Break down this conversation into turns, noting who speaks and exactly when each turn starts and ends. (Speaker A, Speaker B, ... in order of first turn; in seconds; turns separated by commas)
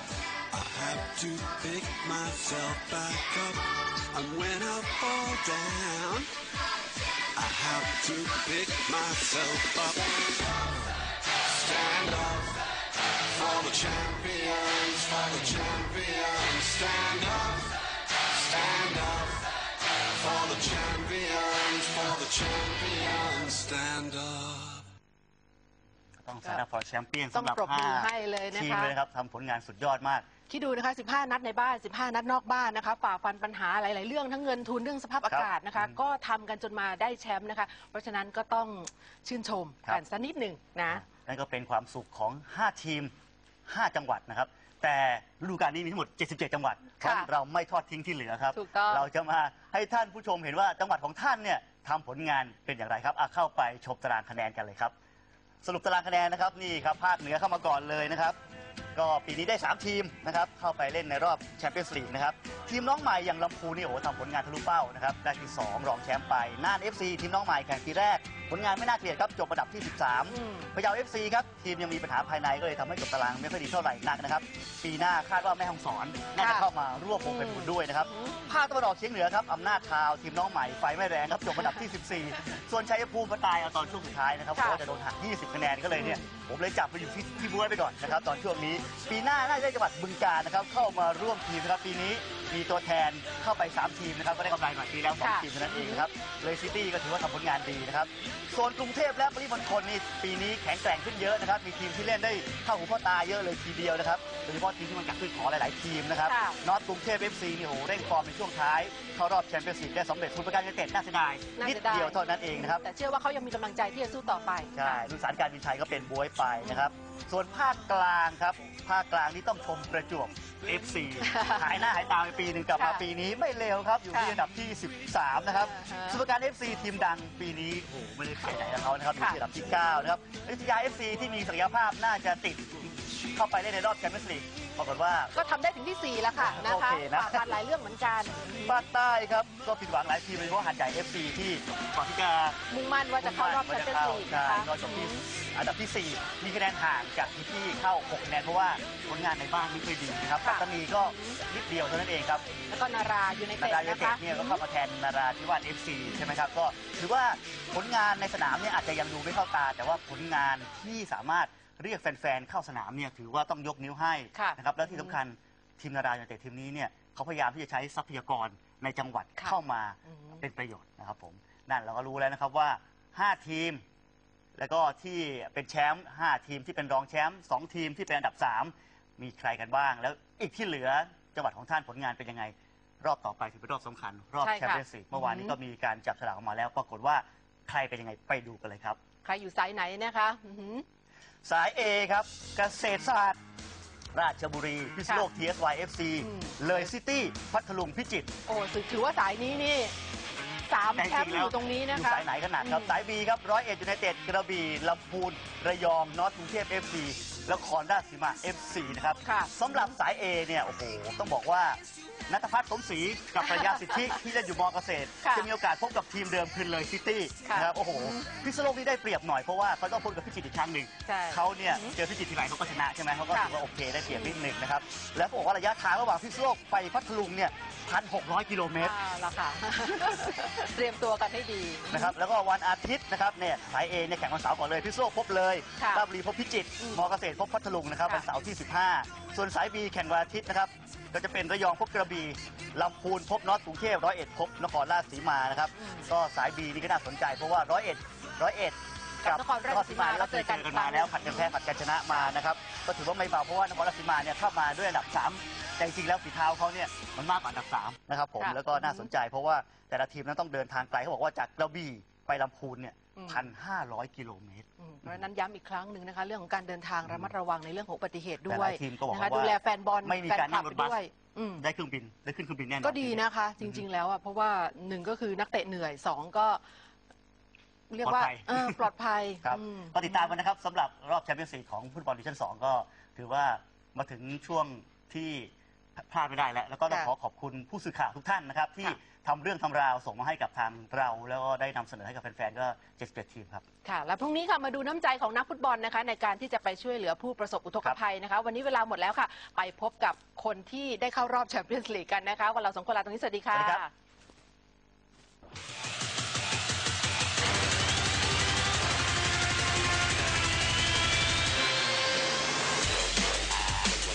Speaker A: 0.5-6.3, Speaker A: 7.3-10.9, Speaker A: 11.4-12.6, Speaker A: 13.3-19.5, Speaker A: 20.1-24.9, Speaker B: 26.2-30.2, Speaker C: 27.3-28.9, Speaker C: 30.5-41.0, Speaker B: 35.3-36.0, Speaker B: 40.9-43.1, Speaker B: 43.7-54.9, Speaker C: 47.0-47.3, Speaker C: 48.5-49.0, Speaker B: 55.6-58.4, Speaker B: 58.9-112.8, Speaker C: 70.3-70.7, Speaker C: 76.4-76.7, Speaker C: 77.2-78.4, Speaker C: 85.9-86.2, Speaker C: 95.2-96.1, Speaker C: 106.2-106.6, Speaker C: 111.6-115.0, Speaker B: 114.7-135.3, Speaker C: 116.6-116.9, Speaker C: 121.2-121.7, Speaker C: 122.8-123.0, Speaker C: 124.1-124.4, Speaker C: 125.5-126.2, Speaker C: 129.2-129.4, Speaker C: 135.3-138.8, Speaker B: 136.4-137.5, Speaker B: 138.6-142.6, Speaker C: 142.7-145.2, Speaker B: 143.2-152.4, Speaker C: 150.4-151.4, Speaker C: 152.7-154.6, Speaker B: 153.6-173.8, Speaker C: 156.1-156.3, Speaker C: 164.3-165.2, Speaker C: 169.4-170.4, Speaker B: 174.6-189.0, Speaker C: 184.4-185.6, Speaker C: 189.2-190.8, Speaker B: 191.4-193.4, Speaker B: 194.1-198.3, Speaker C: 196.2-196.9, Speaker C: 198.5-199.9, Speaker C: 200.7-203.0, Speaker B: 200.9-228.9, Speaker C: 209.2-209.9, Speaker C: 213.4-214.2, Speaker C: 215.2-215.5, Speaker C: 217.4-218.2, Speaker C: 221.1-221.9, Speaker C: 224.1-224.4, Speaker C: 228.8-232.1, Speaker B: 231.9-265.2, Speaker C: 235.8-236.0, Speaker C: 236.8-237.1, Speaker C: 245.7-246.1, Speaker C: 249.2-251.5, Speaker C: 258.4-259.1, Speaker C: 263.1-263.5, Speaker C: 264.8-271.6, Speaker B: 267.0-267.3, Speaker B: 268.4-271.0, Speaker B: 271.6-273.9, Speaker C: 272.8-276.6, Speaker C: 277.9-280.3, Speaker B: 278.0-278.9, Speaker B: 279.4-293.6, Speaker C: 293.8-303.9, Speaker B: 303.5-303.8